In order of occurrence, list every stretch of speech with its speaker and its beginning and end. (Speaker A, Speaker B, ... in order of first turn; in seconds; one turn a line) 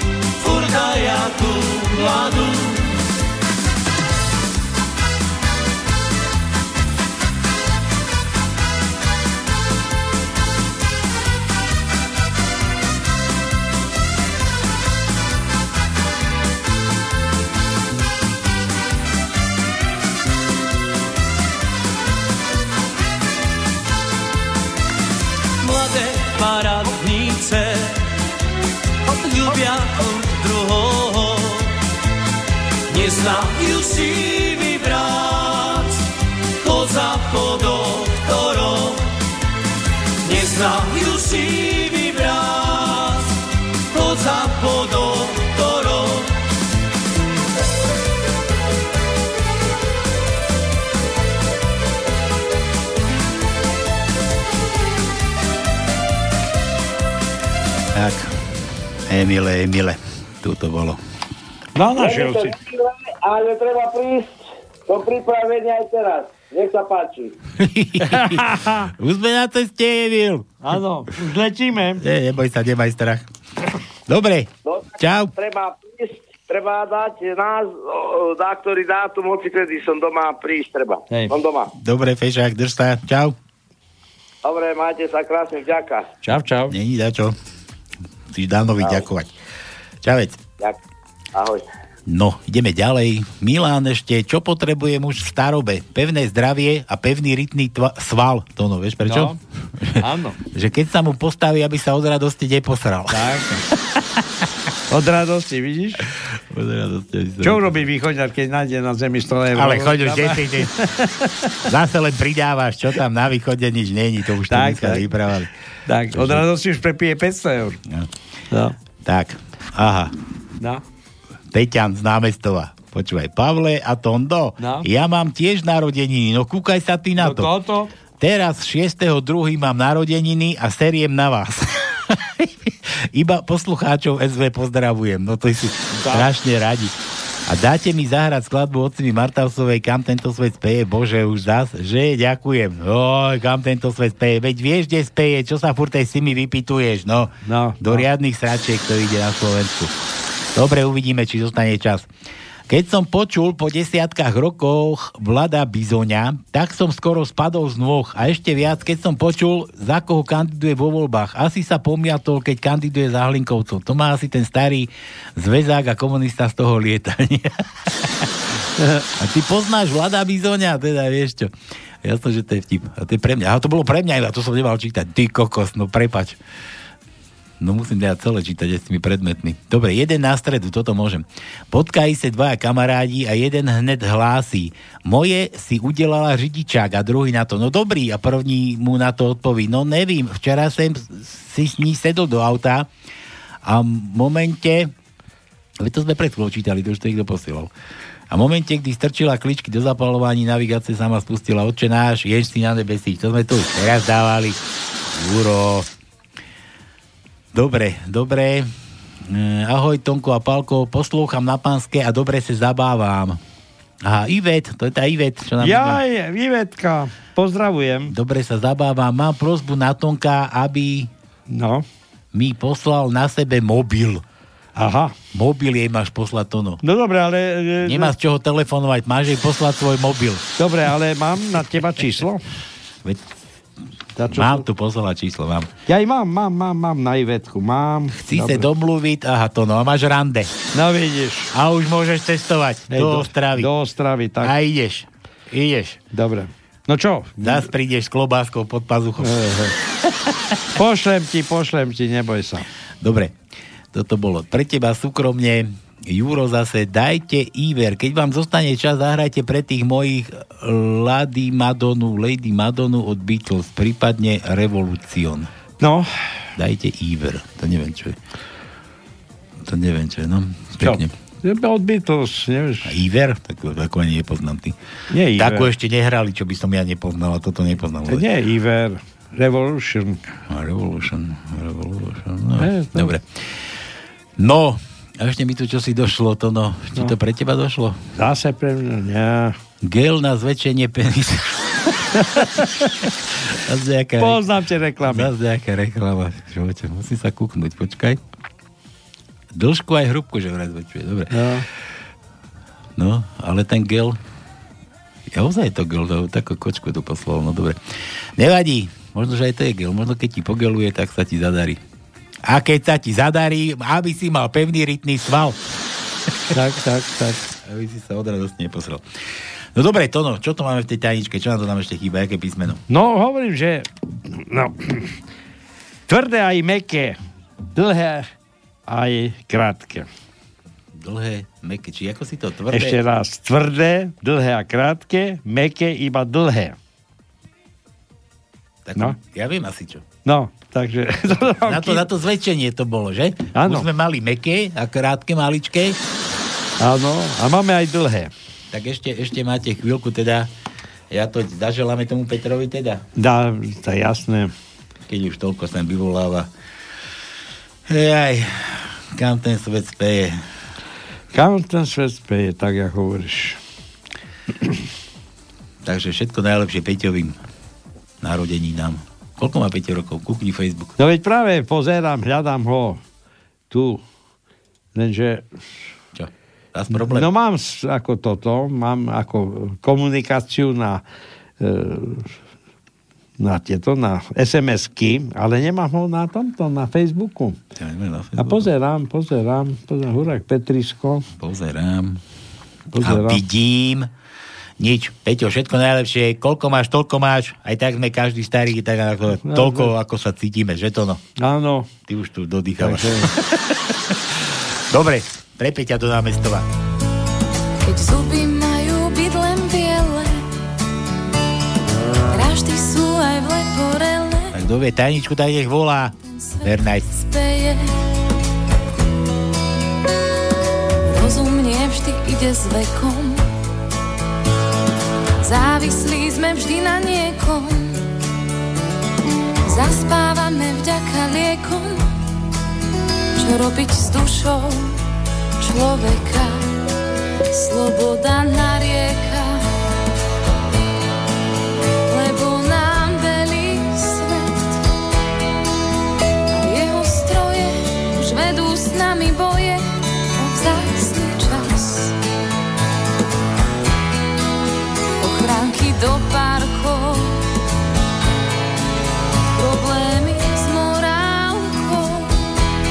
Speaker A: 0.4-2.8
Speaker A: 25.6-28.0
Speaker A: 29.1-31.7
Speaker A: 32.9-36.0
Speaker A: 36.6-39.0
Speaker A: 40.2-43.3
Speaker A: 43.9-46.3
Speaker B: 57.9-61.0
Speaker C: 61.8-62.5
Speaker D: 61.9-64.3
Speaker D: 64.9-67.3
Speaker B: 67.6-70.5
Speaker C: 68.0-68.9
Speaker C: 70.6-72.0
Speaker B: 72.0-73.2
Speaker B: 74.1-75.3
Speaker D: 74.6-81.7
Speaker B: 81.8-83.3
Speaker D: 84.4-86.1
Speaker C: 86.2-86.7
Speaker B: 86.7-87.3
Speaker B: 88.3-89.3
Speaker D: 88.8-89.0
Speaker B: 90.0-90.4
Speaker D: 91.3-91.6
Speaker B: 92.0-100.0
Speaker C: 99.0-99.4
Speaker C: 100.0-100.4
Speaker B: 100.5-103.3
Speaker C: 103.1-103.7
Speaker C: 104.9-106.0
Speaker B: 106.3-107.8
Speaker C: 107.4-111.3
Speaker B: 109.5-110.7
Speaker B: 111.7-115.5
Speaker C: 114.5-115.1
Speaker C: 115.9-117.8
Speaker B: 116.1-116.4
Speaker B: 119.0-120.1
Speaker B: 121.5-127.5
Speaker C: 124.6-124.8
Speaker C: 127.2-127.9
Speaker B: 128.2-136.9
Speaker C: 135.9-136.3
Speaker B: 137.4-149.9
Speaker C: 147.4-148.1
Speaker B: 150.5-152.1
Speaker B: 152.7-168.2
Speaker C: 168.8-169.0
Speaker B: 169.2-171.5
Speaker B: 172.0-176.4
Speaker B: 177.6-192.9
Speaker B: 193.6-194.9
Speaker B: 195.8-197.7
Speaker B: 198.3-204.6
Speaker B: 205.1-205.9
Speaker B: 207.5-208.7
Speaker B: 209.2-213.4
Speaker B: 214.0-216.0
Speaker C: 215.6-218.1
Speaker B: 218.1-221.1
Speaker C: 221.5-221.8
Speaker B: 222.3-224.2
Speaker C: 224.8-225.1
Speaker B: 225.3-226.8
Speaker C: 226.8-228.1
Speaker B: 227.8-230.4
Speaker C: 230.6-232.4
Speaker C: 234.2-234.6
Speaker B: 234.3-235.7
Speaker C: 235.9-238.7
Speaker B: 238.1-240.5
Speaker C: 240.7-241.5
Speaker B: 241.5-243.7
Speaker C: 242.9-244.5
Speaker B: 244.4-246.0
Speaker C: 246.1-247.7
Speaker B: 247.4-249.3
Speaker C: 249.2-249.7
Speaker C: 250.8-252.7
Speaker B: 253.0-253.3
Speaker B: 253.9-265.5
Speaker C: 265.8-266.1
Speaker B: 266.6-268.2
Speaker B: 269.6-271.1
Speaker C: 270.8-272.9
Speaker B: 272.8-274.8
Speaker C: 275.1-275.7
Speaker B: 275.4-278.2
Speaker C: 278.1-280.2
Speaker B: 280.5-283.4
Speaker C: 282.6-283.1
Speaker B: 284.4-288.0
Speaker C: 288.2-289.6
Speaker B: 289.8-291.7
Speaker C: 292.2-292.7
Speaker B: 293.6-294.4
Speaker C: 294.2-295.3
Speaker B: 295.0-298.2
Speaker B: 299.5-301.4
Speaker C: 301.3-301.6
Speaker B: 302.9-304.2
Speaker B: 305.3-307.8
Speaker B: 308.4-311.8
Speaker B: 312.4-315.6
Speaker C: 316.5-317.4
Speaker B: 317.6-319.0
Speaker B: 319.7-322.8
Speaker C: 322.9-325.1
Speaker C: 326.1-327.2
Speaker C: 327.7-328.3
Speaker C: 328.9-330.1
Speaker B: 330.9-333.0
Speaker C: 332.7-336.8
Speaker B: 338.9-340.0
Speaker C: 340.2-342.0
Speaker B: 341.6-346.0
Speaker C: 343.6-343.9
Speaker C: 346.8-348.3
Speaker B: 348.7-350.5
Speaker B: 351.1-353.0
Speaker C: 353.1-354.5
Speaker B: 355.1-356.5
Speaker B: 357.9-360.4
Speaker C: 361.3-363.6
Speaker B: 365.8-367.4
Speaker B: 368.2-370.9
Speaker C: 371.0-373.0
Speaker C: 373.7-374.0
Speaker C: 374.9-375.5
Speaker B: 376.1-377.3
Speaker C: 376.9-381.0
Speaker C: 381.6-382.3
Speaker C: 383.4-387.6
Speaker B: 387.8-388.7
Speaker C: 388.4-391.2
Speaker B: 391.3-392.2
Speaker C: 392.9-393.4
Speaker B: 393.0-394.1
Speaker B: 394.8-401.2
Speaker C: 399.5-399.9
Speaker C: 401.4-401.9
Speaker B: 402.1-403.3
Speaker C: 402.8-403.3
Speaker B: 404.9-406.6
Speaker E: 407.8-410.5
Speaker E: 412.3-414.6
Speaker B: 414.5-417.1
Speaker E: 416.3-417.9
Speaker E: 421.1-423.4
Speaker E: 425.4-428.1
Speaker E: 429.6-432.1
Speaker E: 433.4-435.0
Speaker E: 435.6-436.7
Speaker E: 437.5-439.6
Speaker E: 442.1-444.8
Speaker E: 446.5-452.1
Speaker E: 455.2-457.4
Speaker E: 459.5-462.4